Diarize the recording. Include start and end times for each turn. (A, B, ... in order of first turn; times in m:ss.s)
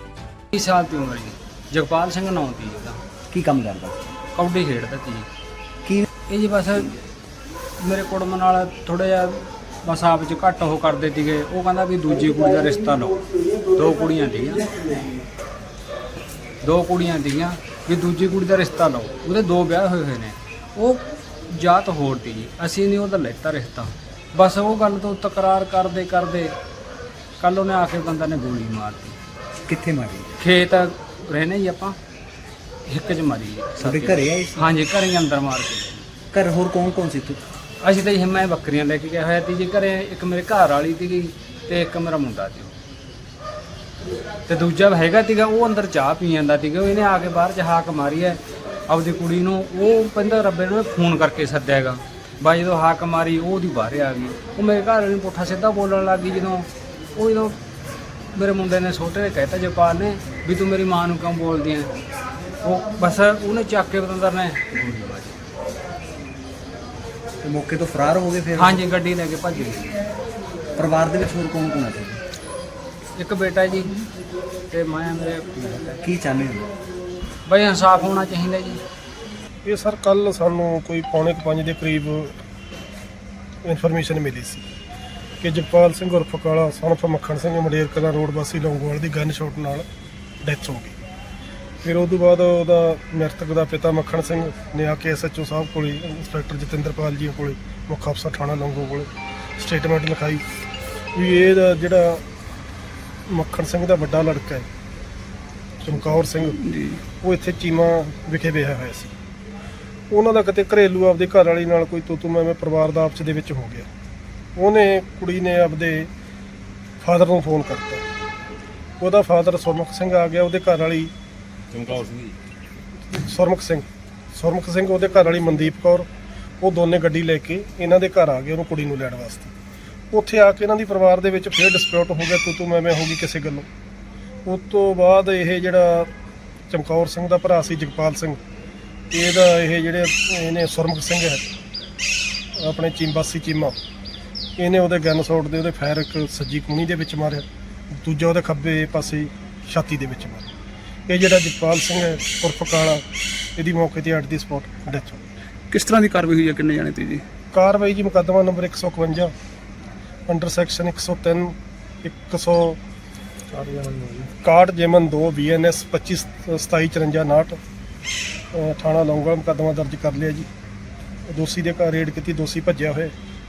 0:00.5-0:03.0 A
0:03.3-0:04.1 B
0:04.3-0:05.3 A
0:06.3-0:07.0 A
0:07.8-0:13.2 A
0:13.7-0:15.1 A
0:16.6-0:26.5 A
0:27.4-0:29.2 A
0:29.6-0:30.3 B
0:30.4-0:32.0 A
0:32.9-0:36.0 A
0:33.8-0:34.6 B
0:36.3-0:37.4 B
0:37.8-0:42.7 A
0:44.5-0:57.6 A
0:58.3-1:01.9 A
1:02.6-1:05.3 A
1:07.4-1:08.8 B
1:08.5-1:10.0 A
1:10.8-1:12.2 B
1:13.2-1:14.0 A
1:14.7-1:15.7 A
1:15.8-1:16.7 B
1:17.5-1:18.8 A
1:19.6-1:22.3 C
1:23.6-1:24.6 C
1:25.4-1:29.8 C
1:30.4-1:30.9 C
1:31.8-1:40.4 C
1:41.1-1:42.2 C
1:43.3-1:44.6 C
1:45.8-1:46.6 C
1:46.6-1:47.0 D
1:47.2-1:49.1 C
1:50.1-1:53.9 C
1:54.6-1:56.1 C
1:57.0-1:58.0 C
1:59.0-2:01.1 C
2:01.7-2:02.3 D
2:03.1-2:06.1 C
2:06.6-2:09.5 C
2:10.1-2:13.6 C
2:14.4-2:16.1 C
2:16.7-2:18.4 C
2:19.1-2:21.4 C
2:22.6-2:23.8 C
2:24.6-2:27.4 C
2:28.0-2:30.5 C
2:31.1-2:33.0 C
2:33.6-2:35.2 C
2:35.7-2:37.2 D
2:37.5-2:39.3 C
2:40.3-2:42.8 C
2:43.5-2:44.2 D
2:44.4-2:47.6 C
2:48.5-2:50.5 C
2:51.3-2:53.1 C